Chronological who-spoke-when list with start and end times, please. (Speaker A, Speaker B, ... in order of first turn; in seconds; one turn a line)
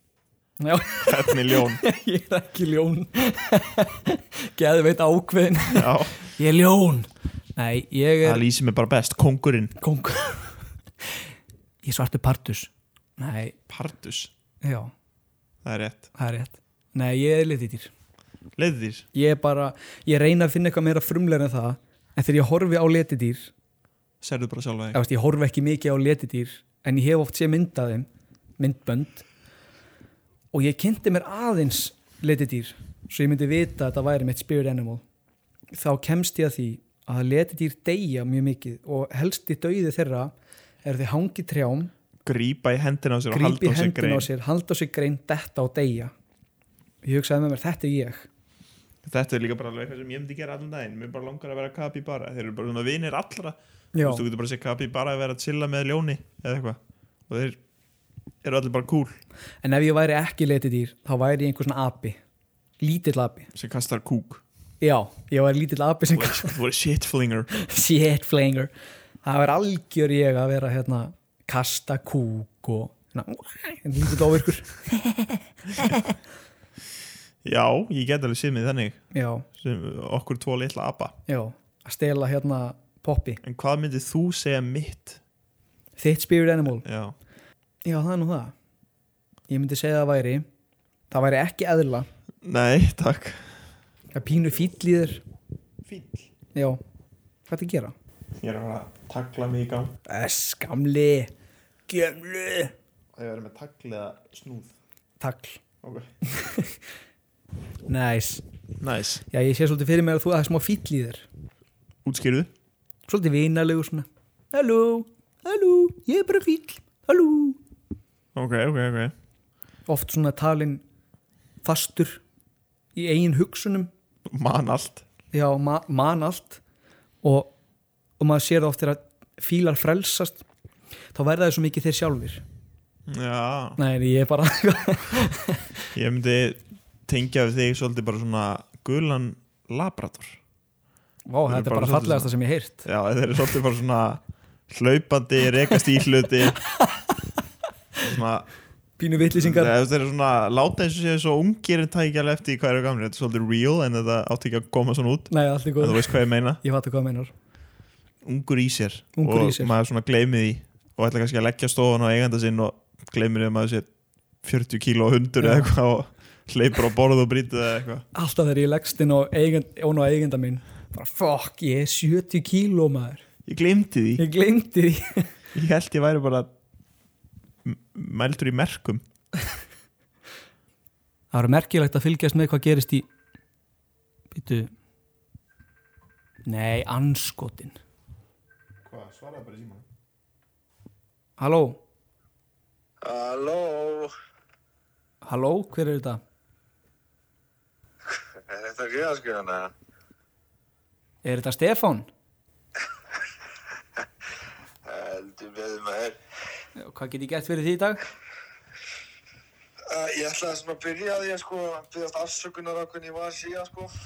Speaker A: 0.6-8.4
Speaker B: 1.0-1.8
Speaker B: 5.7-6.3
Speaker B: 8.2-9.8
Speaker A: 9.8-10.6
Speaker A: 11.8-13.6
Speaker B: 13.7-14.3
Speaker A: 14.6-14.9
Speaker B: 15.6-16.1
Speaker A: 16.1-17.9
Speaker B: 18.6-19.1
Speaker A: 19.1-23.5
Speaker B: 24.2-25.0
Speaker A: 24.9-28.1
Speaker A: 28.6-29.2
Speaker A: 30.5-35.0
Speaker A: 35.7-40.3
Speaker A: 40.8-41.9
Speaker B: 42.2-44.3
Speaker A: 43.3-46.1
Speaker A: 47.0-48.3
Speaker B: 49.0-57.6
Speaker A: 53.9-54.2
Speaker B: 58.4-59.2
Speaker A: 59.6-62.2
Speaker A: 62.8-63.5
Speaker B: 63.5-64.4
Speaker A: 64.8-66.5
Speaker B: 66.1-67.5
Speaker A: 67.5-68.7
Speaker A: 69.2-75.2
Speaker B: 77.4-79.0
Speaker A: 79.1-79.5
Speaker B: 79.5-81.2
Speaker A: 81.3-83.4
Speaker B: 83.4-85.2
Speaker A: 86.0-86.8
Speaker B: 86.8-87.1
Speaker A: 87.8-88.5
Speaker A: 89.5-90.5
Speaker A: 91.1-92.1
Speaker B: 92.4-93.5
Speaker A: 94.1-95.2
Speaker B: 95.8-96.3
Speaker A: 96.5-96.8
Speaker A: 97.5-97.9
Speaker B: 98.4-99.9
Speaker A: 100.0-101.3
Speaker A: 101.9-102.7
Speaker B: 103.1-104.7
Speaker A: 105.2-105.6
Speaker B: 105.8-106.1
Speaker A: 106.2-106.8
Speaker A: 107.9-108.4
Speaker B: 108.8-109.2
Speaker A: 109.3-111.3
Speaker B: 112.0-112.5
Speaker A: 113.1-117.6
Speaker B: 118.3-119.1
Speaker A: 119.9-120.8
Speaker A: 121.6-122.2
Speaker A: 122.9-123.9
Speaker B: 124.3-125.0
Speaker A: 125.3-126.6
Speaker A: 127.2-127.5
Speaker A: 128.2-130.4
Speaker A: 131.1-132.4
Speaker B: 133.1-133.8
Speaker A: 133.8-135.7
Speaker B: 135.9-140.4
Speaker A: 141.3-142.8
Speaker B: 141.5-142.3
Speaker B: 142.8-146.6
Speaker A: 146.7-147.1
Speaker B: 148.0-148.5
Speaker A: 149.0-149.7
Speaker B: 149.3-156.6
Speaker A: 155.3-157.3
Speaker B: 158.2-163.9
Speaker A: 159.2-159.7
Speaker B: 164.4-168.1
Speaker A: 165.4-165.7
Speaker A: 168.1-173.2
Speaker B: 173.4-174.2
Speaker A: 174.2-175.3
Speaker B: 175.5-176.5
Speaker B: 177.6-179.0
Speaker A: 181.3-183.1
Speaker A: 184.3-184.7
Speaker A: 186.4-187.8
Speaker B: 188.8-189.8
Speaker A: 191.4-191.8
Speaker C: 193.0-194.1
Speaker A: 195.2-196.2
Speaker C: 198.5-199.7
Speaker A: 201.2-202.1
Speaker C: 204.8-206.2
Speaker A: 206.8-208.0
Speaker C: 209.9-213.9